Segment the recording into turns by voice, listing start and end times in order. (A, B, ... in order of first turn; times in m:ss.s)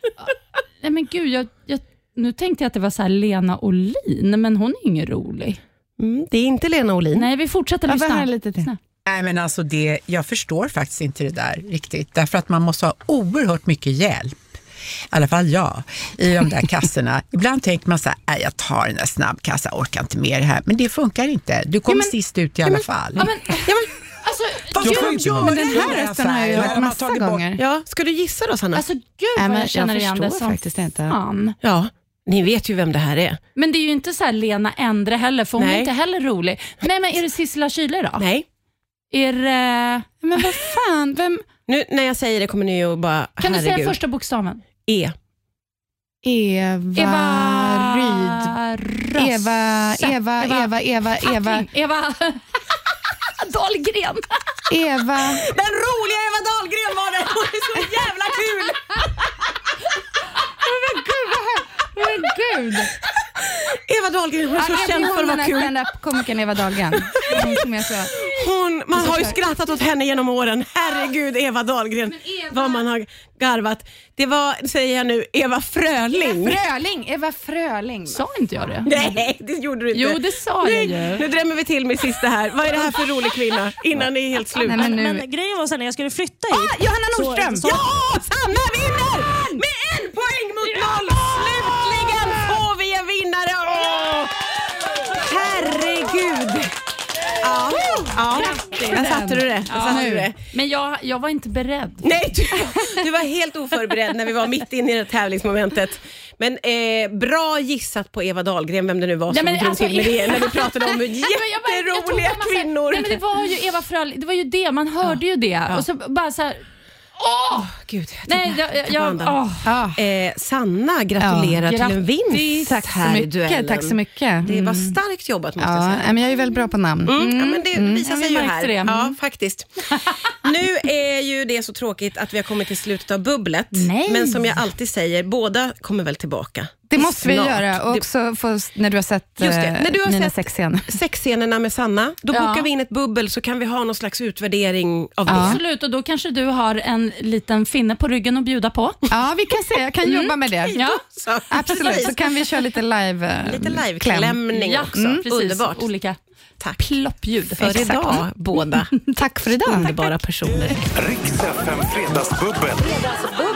0:00.8-0:05.6 A
0:06.0-0:07.3 B
0:07.1-0:08.8 A
0:07.9-0:08.7 C
0:09.0-0:14.5 D
0:15.1-0:23.3 D
0:22.6-0:23.9 B
0:23.2-0:23.7 A
0:24.2-0:26.0 A
0:24.7-0:27.6 D
0:25.2-0:27.6 C
0:27.6-0:28.8 B
0:28.7-0:31.6 A
0:29.4-0:31.2 C
0:31.6-0:33.4 B
0:33.6-0:38.2 A
0:35.6-0:35.9 B
0:38.2-0:38.4 B
0:39.1-0:40.1 A
0:40.2-0:41.4 C
0:41.7-0:44.0 B
0:43.4-0:44.6 A
0:44.9-0:45.1 B
0:46.2-0:48.5 C
0:46.9-0:52.4 A
0:49.2-0:51.7 C
0:53.3-0:54.3 A
0:54.7-0:55.4 C
0:55.4-0:59.3 B
1:00.6-1:02.9 C
1:03.5-1:05.7 B
1:04.5-1:08.3 C
1:07.0-1:07.6 B
1:08.2-1:16.6 B
1:08.9-1:09.4 C
1:12.2-1:12.8 C
1:16.2-1:19.1 C
1:18.1-1:19.0 A
1:18.9-1:24.9 B
1:19.9-1:21.2 A
1:24.6-1:25.2 C
1:24.7-1:27.9 E
1:26.8-1:27.7 C
1:26.9-1:34.5 B
1:35.1-1:36.7 B
1:37.4-1:40.3 B
1:38.3-1:42.1 A
1:38.9-1:40.3 C
1:42.0-1:53.2 B
1:49.3-1:56.6 A
1:57.2-1:57.7 A
1:57.6-1:59.4 B
1:58.2-1:59.7 A
1:59.6-2:00.0 C
2:00.0-2:06.1 B
2:01.2-2:01.6 C
2:01.6-2:02.8 A
2:02.7-2:05.0 C
2:05.6-2:08.1 C
2:07.0-2:09.7 B
2:08.0-2:09.2 A
2:10.3-2:18.0 B
2:13.7-2:14.6 A
2:16.9-2:21.0 C
2:19.4-2:25.6 B
2:22.3-2:22.6 A
2:25.3-2:25.6 C
2:25.3-2:29.0 A
2:29.1-2:30.8 C
2:30.0-2:31.0 A
2:30.8-2:32.1 B
2:31.5-2:34.4 C
2:31.6-2:32.3 A
2:33.4-2:35.9 B
2:34.5-2:36.2 A
2:34.9-2:35.2 C
2:36.6-2:36.9 B
2:36.8-2:38.2 A
2:37.6-2:40.9 B
2:39.1-2:39.9 C
2:40.9-2:43.2 F